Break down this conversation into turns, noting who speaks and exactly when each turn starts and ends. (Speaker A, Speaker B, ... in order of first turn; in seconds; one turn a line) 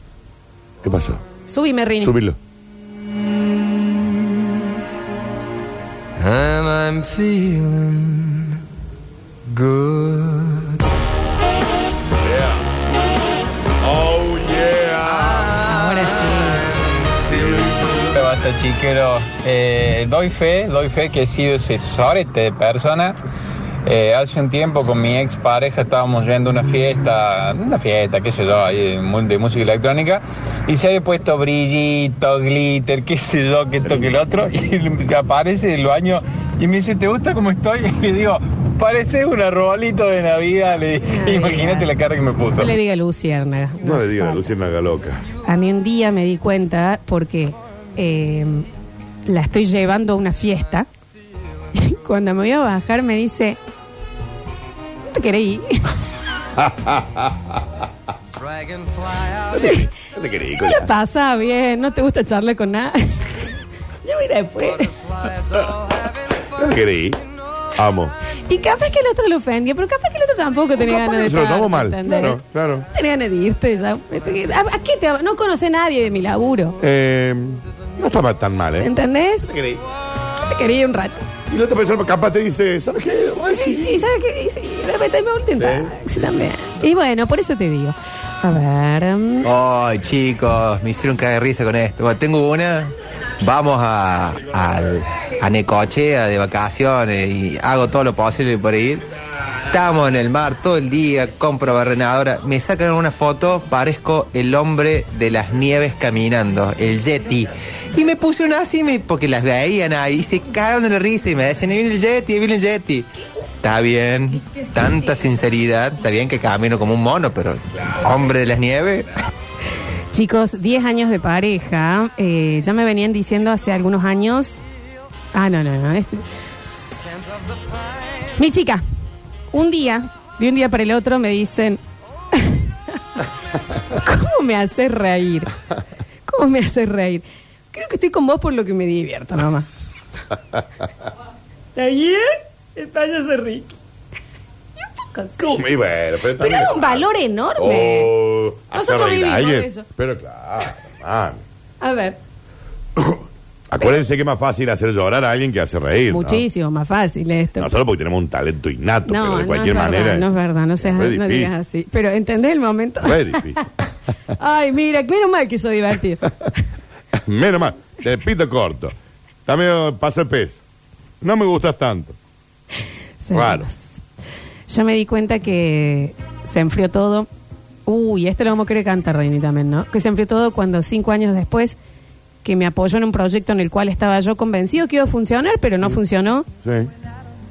Speaker A: 0.8-1.2
Speaker B: 1.5-2.1
Speaker A: 2.0-2.4
Speaker A: 12.2-12.6
Speaker A: 13.8-15.6
Speaker B: 15.6-16.7
Speaker A: 17.2-18.0
Speaker C: 18.1-23.2
Speaker C: 23.8-42.7
Speaker A: 33.9-34.1
Speaker B: 41.0-41.9
Speaker B: 42.6-44.4
Speaker A: 43.8-45.2
Speaker B: 45.4-48.7
Speaker B: 49.3-50.9
Speaker B: 51.7-53.6
Speaker B: 55.0-55.9
Speaker A: 56.5-57.6
Speaker A: 59.5-60.9
Speaker B: 59.5-59.9
Speaker B: 60.5-63.4
Speaker B: 64.0-64.9
Speaker A: 66.5-67.2
Speaker A: 67.8-68.1
Speaker B: 68.5-76.8
Speaker A: 70.8-72.9
Speaker A: 76.8-78.9
Speaker B: 78.8-79.5
Speaker A: 79.5-79.8
Speaker B: 80.4-81.2
Speaker A: 81.5-84.0
Speaker B: 83.5-89.5
Speaker A: 85.6-86.0
Speaker D: 89.4-99.0
Speaker D: 99.7-113.1
Speaker D: 113.6-119.1
Speaker B: 120.1-124.6
Speaker B: 125.3-126.2
Speaker B: 128.4-128.8
Speaker B: 129.5-131.8
Speaker B: 132.3-132.6
Speaker B: 133.9-135.5
Speaker B: 136.3-139.7
Speaker B: 141.8-143.7
Speaker B: 144.8-145.6
Speaker A: 145.4-147.1
Speaker B: 146.4-148.1
Speaker A: 147.6-151.4
Speaker B: 148.7-149.9
Speaker B: 151.8-152.2
Speaker A: 152.9-156.4
Speaker B: 156.1-157.7
Speaker A: 157.6-161.5
Speaker B: 159.1-163.5
Speaker A: 163.0-163.7
Speaker B: 164.4-166.3
Speaker A: 167.2-168.9
Speaker A: 169.4-170.6
Speaker A: 171.2-172.2
Speaker B: 173.2-173.8
Speaker A: 173.3-173.7
Speaker B: 174.7-177.3
Speaker B: 177.9-181.8
Speaker B: 182.4-186.5
Speaker A: 186.6-186.9